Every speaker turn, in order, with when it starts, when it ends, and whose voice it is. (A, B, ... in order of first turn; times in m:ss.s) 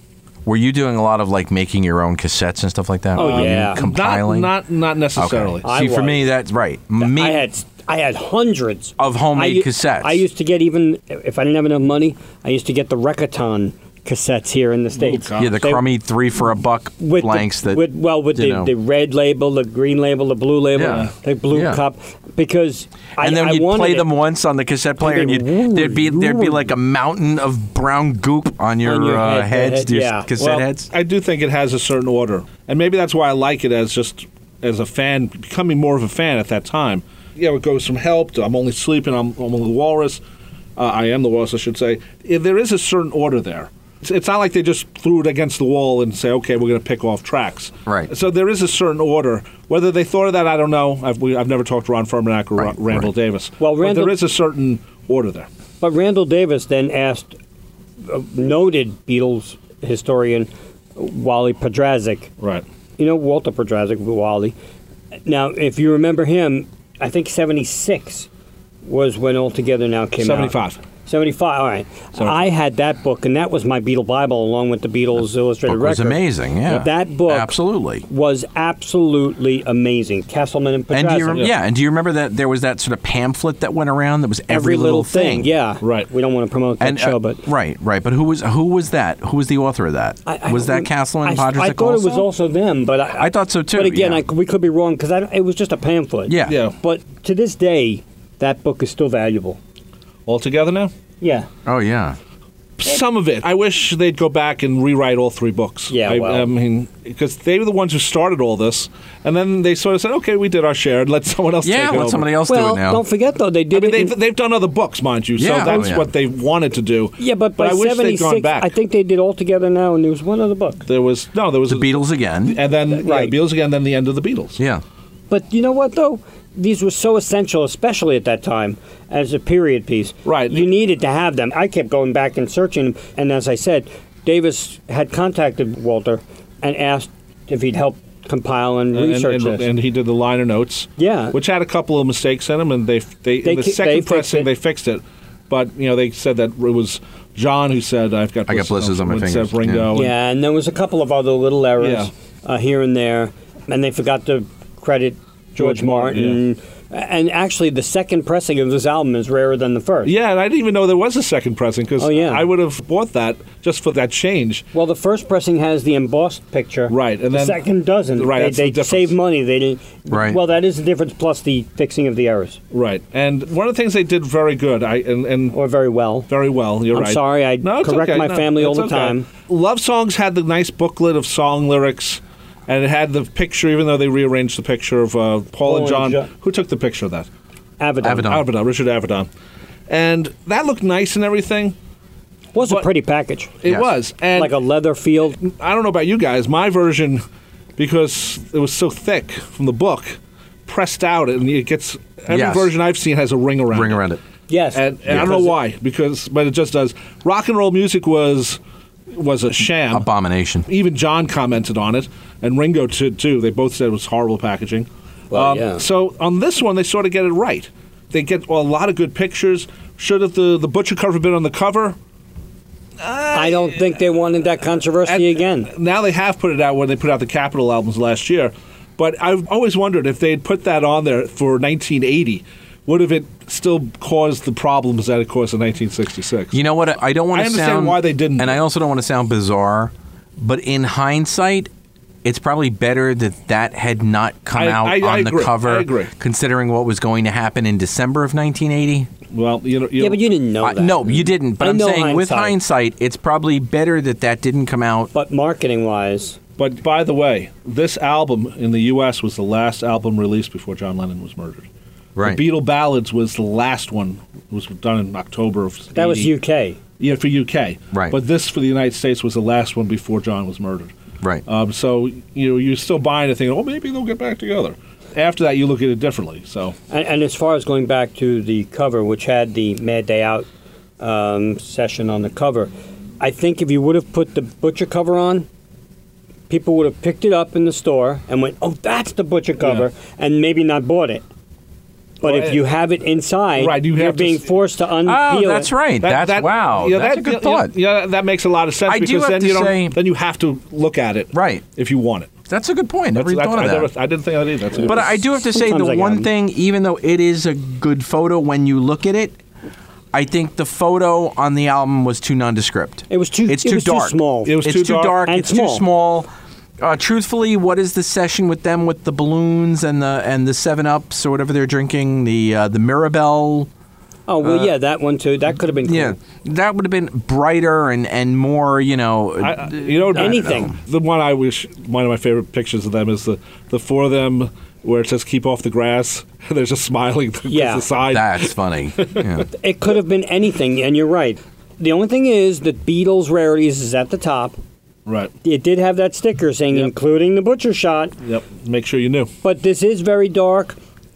0:00.4-0:04.5 A
0:03.2-0:03.8 B
0:03.2-0:05.6 C
0:05.2-0:07.4 A
0:05.6-0:06.3 B
0:07.0-0:15.8 B
0:09.0-0:10.2 A
0:14.9-0:15.6 C
0:15.4-0:17.8 A
0:17.0-0:24.1 B
0:18.3-0:18.7 A
0:20.8-0:21.8 A
0:23.2-0:30.9 A
0:25.0-0:26.7 B
0:28.8-0:30.6 B
0:30.9-0:40.2 C
0:40.8-0:55.5 C
0:52.6-0:53.1 A
0:53.6-0:54.2 B
0:55.8-0:57.4 B
0:58.0-1:02.3 B
1:03.0-1:04.5 B
1:05.2-1:08.3 B
1:08.8-1:17.6 B
1:10.2-1:10.8 C
1:15.7-1:18.0 A
1:18.1-1:21.4 B
1:20.9-1:25.5 A
1:24.5-1:27.4 B
1:25.8-1:26.1 C
1:26.8-1:32.3 A
1:30.2-1:39.6 B
1:33.2-1:34.2 A
1:36.3-1:36.6 A
1:36.4-1:36.7 C
1:40.3-1:40.9 C
1:41.2-1:41.5 B
1:41.6-1:42.2 A
1:42.8-1:52.3 C
1:45.9-1:46.5 B
1:51.6-1:53.0 A
1:52.5-1:54.2 B
1:53.7-1:58.7 C
1:55.4-1:56.1 A
1:55.5-1:55.9 B
1:57.2-2:00.8 B
2:00.9-2:01.9 C
2:01.7-2:02.6 A
2:02.4-2:04.6 C
2:02.9-2:03.3 B
2:05.3-2:19.6 B
2:10.2-2:10.7 C
2:18.9-2:30.1 C
2:21.0-2:21.4 B
2:23.4-2:24.5 B
2:28.5-2:29.9 A
2:29.9-2:40.1 B
2:31.8-2:32.1 C
2:35.6-2:36.4 C
2:40.0-2:44.6 C
2:42.0-2:42.5 B
2:44.7-2:52.6 B
2:46.9-2:47.6 C
2:48.2-2:49.1 C
2:50.1-2:50.4 A
2:52.7-2:55.5 C
2:55.5-2:56.3 B
2:56.3-3:07.3 C
2:56.9-2:59.3 B
3:05.6-3:06.3 B
3:07.8-3:08.4 B
3:08.0-3:08.5 A
3:08.2-3:09.3 C
3:09.9-3:11.7 C
3:12.5-3:13.5 B
3:13.6-3:14.5 C
3:14.3-3:15.4 B
3:15.4-3:17.2 C
3:17.8-3:24.0 C
3:22.3-3:22.7 A
3:23.7-3:24.2 A
3:24.5-3:25.5 B
3:24.7-3:28.6 C
3:29.1-3:30.1 C
3:29.9-3:30.7 A
3:30.7-3:42.0 C
3:35.3-3:35.8 B
3:43.0-3:43.9 C
3:43.3-3:45.7 B
3:45.1-3:56.6 C
3:56.5-4:01.7 A
3:57.3-3:58.6 C
4:02.2-4:09.1 A
4:04.5-4:06.1 C
4:09.3-4:10.2 C
4:10.0-4:12.6 B
4:10.6-4:15.1 A
4:15.1-4:16.4 B
4:16.6-4:21.6 C
4:22.2-4:22.4 A
4:22.2-4:26.3 C
4:25.9-4:26.8 B
4:27.0-4:30.9 C
4:31.4-4:36.7 C
4:36.9-4:40.5 B
4:41.0-4:45.5 B
4:46.5-4:51.2 B
4:52.2-4:55.7 B
4:52.2-4:52.6 C
4:53.6-4:54.5 C
4:55.0-4:57.7 A
4:56.0-5:02.3 C
4:58.8-5:00.0 A
5:01.3-5:01.6 A
5:02.5-5:03.9 A
5:03.1-5:05.1 C
5:04.8-5:09.4 A
5:04.9-5:06.3 B
5:10.1-5:16.3 A
5:13.1-5:14.6 B
5:14.4-5:15.2 C
5:15.2-5:15.8 B
5:16.8-5:23.7 A
5:24.3-5:26.2 B
5:24.4-5:24.7 A
5:25.8-5:30.7 A
5:29.4-5:39.3 C
5:30.1-5:30.7 B
5:37.5-5:37.9 B
5:38.1-5:39.5 A
5:39.5-5:44.6 B
5:45.0-5:45.3 C
5:45.4-5:48.1 B
5:48.2-5:49.3 C
5:49.4-5:50.8 B